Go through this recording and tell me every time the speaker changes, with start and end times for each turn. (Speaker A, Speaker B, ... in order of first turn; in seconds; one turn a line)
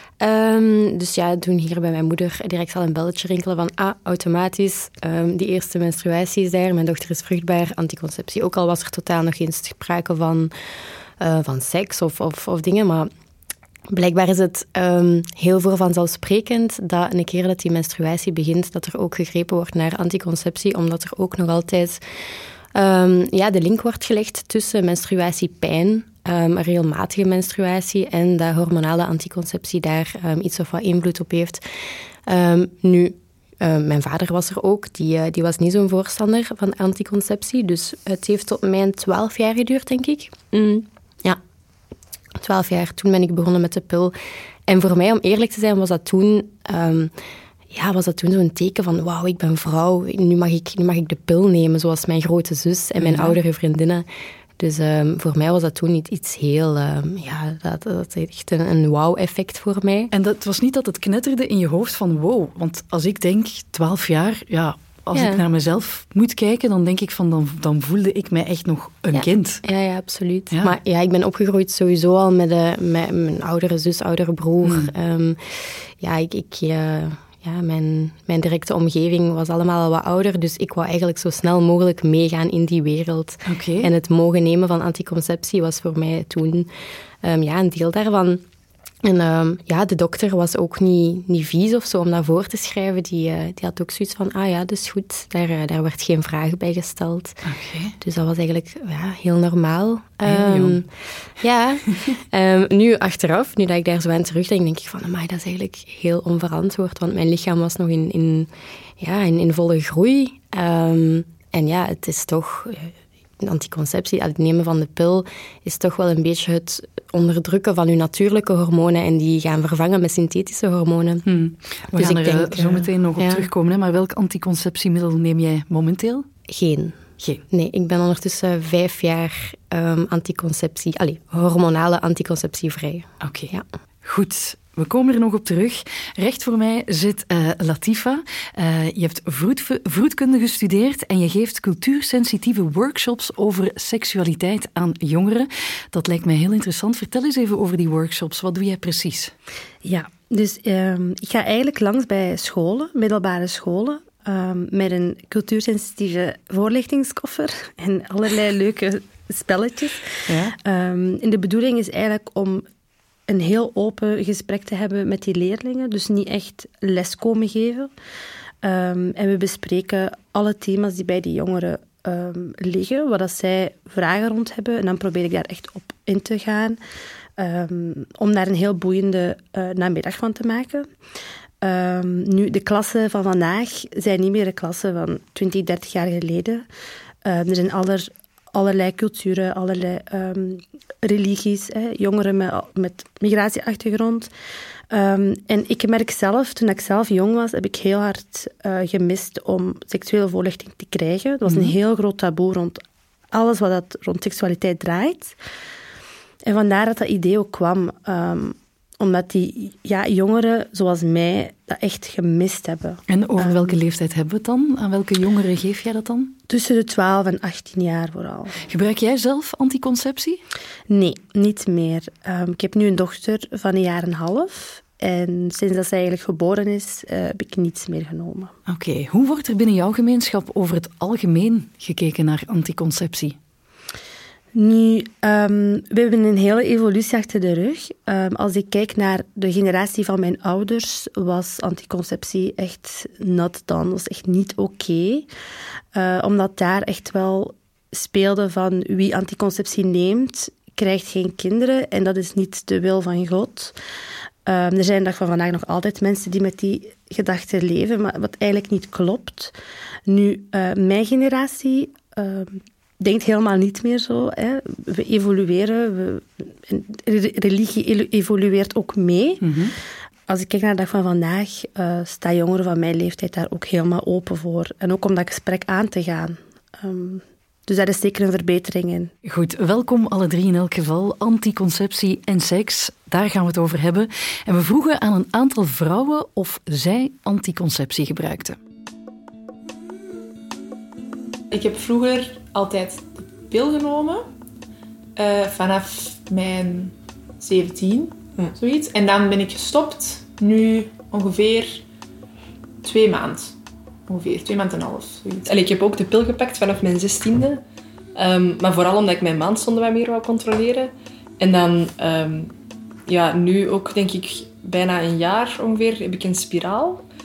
Speaker A: 0.2-10.5
Speaker A: 11.2-13.1
Speaker A: 13.9-22.0
Speaker A: 22.7-31.6
Speaker A: 32.3-41.4
Speaker A: 42.4-44.1
Speaker A: 44.7-47.1
Speaker A: 47.7-54.0
Speaker B: 53.0-53.4
Speaker A: 54.6-60.1
Speaker B: 60.1-69.6
Speaker A: 65.1-65.4
Speaker A: 69.1-86.7
Speaker B: 74.6-74.9
Speaker B: 83.5-83.9
Speaker A: 87.2-88.4
Speaker A: 89.0-97.4
Speaker B: 97.5-97.9
Speaker A: 98.0-100.9
Speaker B: 100.2-100.8
Speaker A: 101.4-121.2
Speaker B: 121.2-126.2
Speaker A: 121.9-123.5
Speaker A: 126.5-127.0
Speaker A: 127.5-133.6
Speaker B: 133.2-133.5
Speaker B: 134.0-149.3
Speaker C: 149.8-162.6
Speaker B: 160.3-160.5
Speaker C: 163.3-167.9
Speaker C: 168.6-176.8
Speaker C: 177.4-180.9
Speaker C: 181.6-186.7
Speaker C: 187.2-194.3
Speaker C: 194.9-202.8
Speaker B: 201.4-201.7
Speaker C: 203.3-205.3
Speaker C: 206.4-213.7
Speaker B: 213.1-216.3
Speaker C: 216.5-218.6
Speaker B: 218.7-220.4
Speaker C: 220.9-228.5
Speaker B: 228.7-233.3
Speaker C: 234.5-245.3
Speaker C: 245.9-253.8
Speaker C: 254.4-259.5
Speaker C: 260.1-269.4
Speaker B: 269.4-269.7
Speaker C: 270.3-279.1
Speaker B: 279.2-288.6
Speaker D: 291.5-294.3
Speaker D: 295.1-301.8
Speaker D: 302.8-303.5
Speaker D: 304.1-305.5
Speaker E: 305.4-307.6
Speaker E: 308.1-312.5
Speaker E: 313.1-317.1